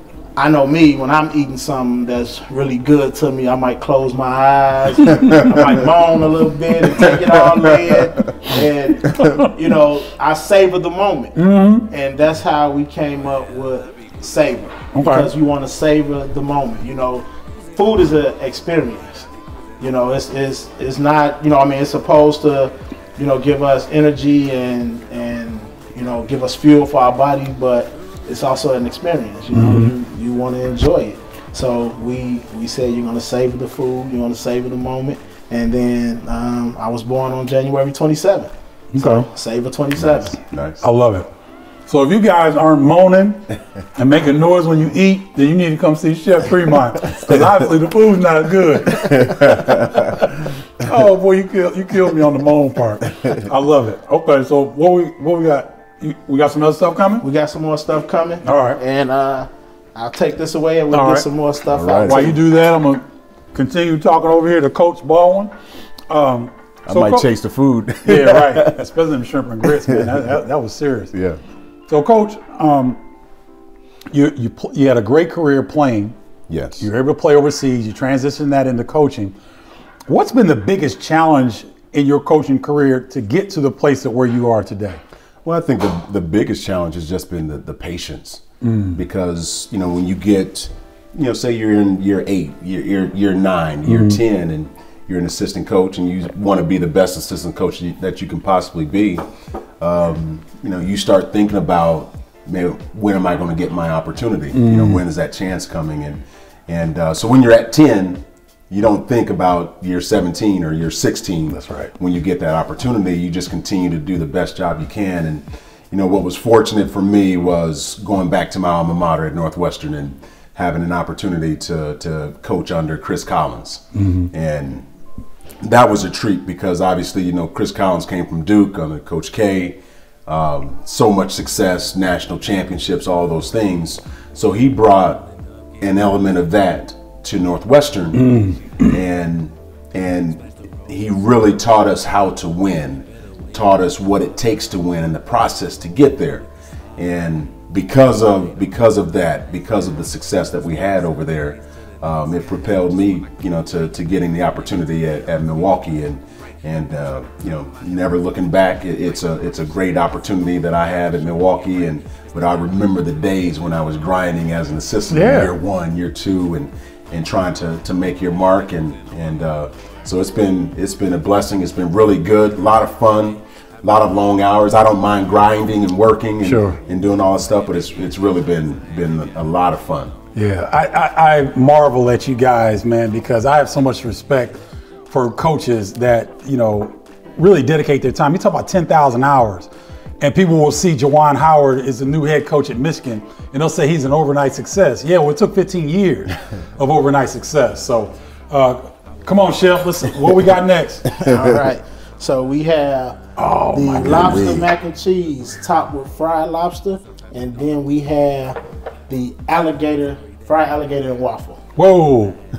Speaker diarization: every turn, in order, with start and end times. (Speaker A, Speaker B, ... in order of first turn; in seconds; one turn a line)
Speaker A: 0.4-11.4
Speaker B: 9.2-9.5
Speaker B: 11.4-11.9
Speaker A: 11.9-19.3
Speaker B: 14.9-15.3
Speaker A: 19.8-40.4
Speaker B: 29.5-29.9
Speaker B: 38.9-39.3
Speaker C: 40.0-40.9
Speaker B: 40.8-41.3
Speaker B: 41.9-57.3
Speaker C: 49.0-50.1
Speaker A: 57.2-62.4
Speaker B: 58.5-58.8
Speaker B: 60.9-61.3
Speaker C: 61.7-62.4
Speaker B: 62.1-65.5
Speaker B: 66.1-67.3
Speaker C: 66.9-68.9
Speaker B: 68.0-71.1
Speaker C: 69.6-70.3
Speaker C: 71.1-71.4
Speaker B: 71.9-73.0
Speaker B: 74.1-76.2
Speaker C: 76.5-76.9
Speaker B: 76.8-79.3
Speaker B: 80.1-85.0
Speaker C: 85.4-99.3
Speaker B: 88.6-89.0
Speaker B: 93.9-94.2
Speaker C: 99.8-124.9
Speaker B: 104.5-105.0
Speaker B: 111.5-111.9
Speaker B: 124.0-124.3
Speaker C: 125.6-180.1
Speaker B: 138.1-139.0
Speaker B: 165.1-165.5
Speaker B: 176.4-176.8
Speaker B: 180.3-184.6
Speaker B: 185.1-189.7
Speaker B: 190.2-201.1
Speaker A: 201.1-211.6
Speaker C: 201.2-201.6
Speaker B: 203.4-204.5
Speaker C: 203.4-204.7
Speaker B: 211.8-212.4